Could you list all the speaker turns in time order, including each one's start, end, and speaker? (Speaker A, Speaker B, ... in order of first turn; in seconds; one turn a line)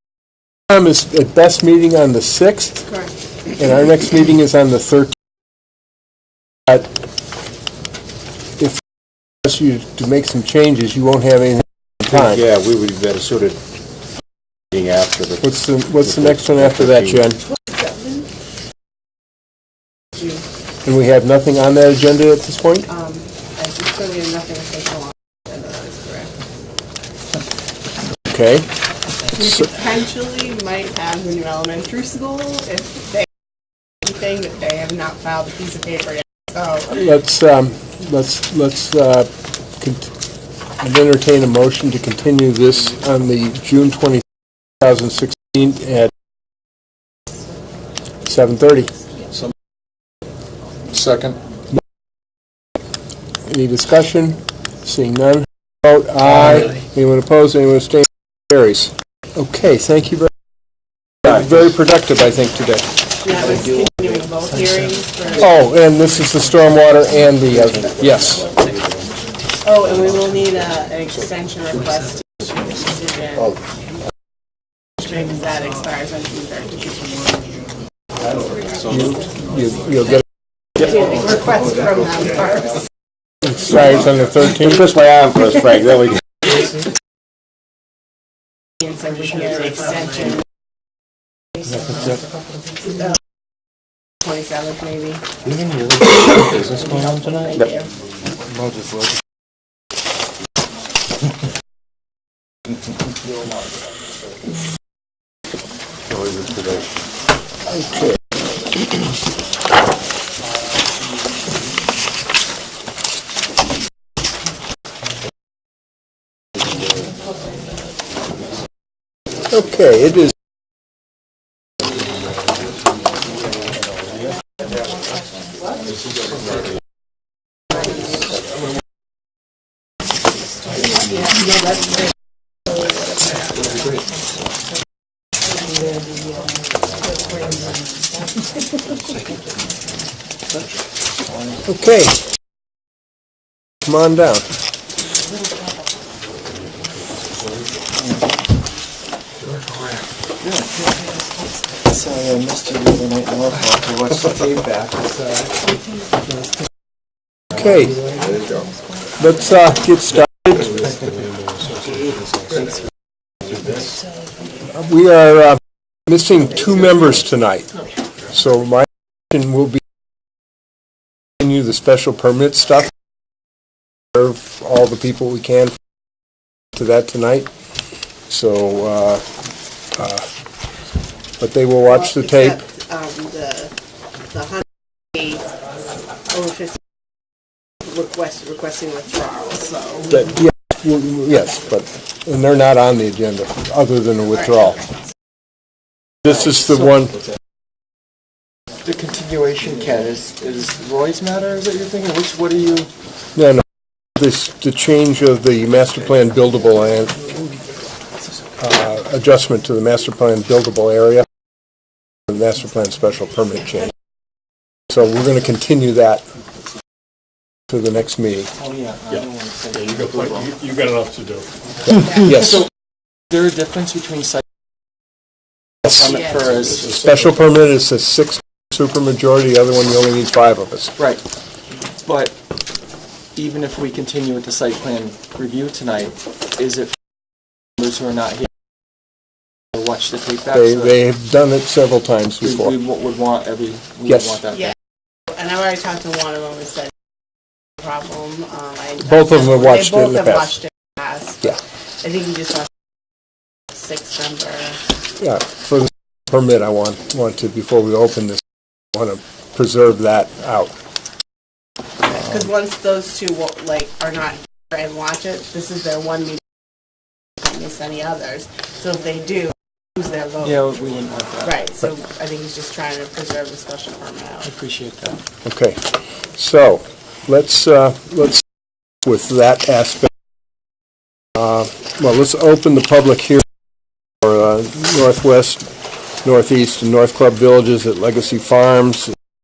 Speaker A: 0.7-2.9
Speaker B: 2.9-3.1
Speaker A: 3.6-5.1
Speaker A: 9.4-12.4
Speaker C: 12.1-13.6
Speaker C: 14.7-15.4
Speaker A: 15.4-17.4
Speaker C: 16.0-17.2
Speaker B: 17.8-18.2
Speaker B: 20.2-20.4
Speaker A: 20.8-22.9
Speaker B: 22.9-26.3
Speaker A: 28.3-28.7
Speaker B: 29.3-33.3
Speaker B: 34.0-37.0
Speaker A: 37.0-39.3
Speaker A: 39.8-40.1
Speaker A: 40.8-44.2
Speaker A: 44.8-46.1
Speaker A: 48.2-48.9
Speaker D: 50.9-51.4
Speaker A: 53.5-60.3
Speaker A: 61.2-62.9
Speaker B: 63.2-65.5
Speaker A: 65.4-68.5
Speaker C: 68.1-68.5
Speaker B: 69.6-73.6
Speaker B: 75.0-77.5
Speaker A: 78.9-80.2
Speaker B: 80.8-82.7
Speaker A: 83.5-84.9
Speaker C: 84.8-86.7
Speaker B: 88.9-90.4
Speaker C: 91.9-92.2
Speaker B: 94.2-95.2
Speaker C: 95.5-97.7
Speaker B: 96.7-97.8
Speaker C: 98.5-99.1
Speaker D: 103.3-103.6
Speaker C: 106.1-106.9
Speaker A: 107.7-108.1
Speaker A: 119.5-120.3
Speaker B: 130.8-132.0
Speaker B: 132.7-133.6
Speaker D: 133.6-134.1
Speaker D: 140.5-141.6
Speaker A: 141.7-142.2
Speaker A: 143.9-144.5
Speaker D: 147.9-148.3
Speaker D: 149.5-151.1
Speaker D: 151.8-155.7
Speaker A: 157.5-158.0
Speaker A: 159.2-160.8
Speaker E: 160.8-162.7
Speaker A: 164.7-167.7
Speaker A: 168.3-169.8
Speaker A: 171.4-172.9
Speaker A: 174.1-175.7
Speaker A: 176.8-177.5
Speaker A: 178.3-179.2
Speaker A: 179.9-180.3
Speaker A: 181.4-182.6
Speaker B: 181.9-183.7
Speaker B: 184.3-184.6
Speaker B: 185.2-185.4
Speaker B: 186.3-186.7
Speaker B: 187.9-190.3
Speaker A: 190.1-194.8
Speaker A: 196.2-197.1
Speaker D: 198.8-202.9
Speaker A: 203.4-203.6
Speaker A: 204.2-207.2
Speaker A: 208.6-211.2
Speaker A: 212.3-213.9
Speaker A: 214.9-216.2
Speaker A: 217.7-218.5
Speaker D: 218.6-220.5
Speaker E: 219.7-221.5
Speaker D: 222.2-222.7
Speaker D: 223.3-224.4
Speaker D: 225.9-227.0
Speaker A: 226.9-230.9
Speaker D: 232.0-232.4
Speaker D: 233.3-236.9
Speaker D: 237.8-238.5
Speaker D: 239.8-240.9
Speaker A: 240.5-242.7
Speaker D: 242.4-244.8
Speaker A: 244.1-244.4
Speaker B: 245.3-246.9
Speaker B: 247.8-249.5
Speaker A: 249.0-250.6
Speaker B: 250.5-252.7
Speaker B: 253.7-254.8
Speaker A: 255.2-258.4
Speaker A: 258.9-260.7
Speaker B: 262.1-266.4
Speaker B: 267.4-270.7
Speaker D: 270.4-271.6
Speaker B: 271.4-274.5
Speaker D: 274.4-275.2
Speaker A: 275.4-275.8
Speaker A: 276.4-278.4
Speaker A: 279.1-280.1
Speaker A: 281.4-283.4
Speaker A: 284.2-285.7
Speaker A: 286.2-289.1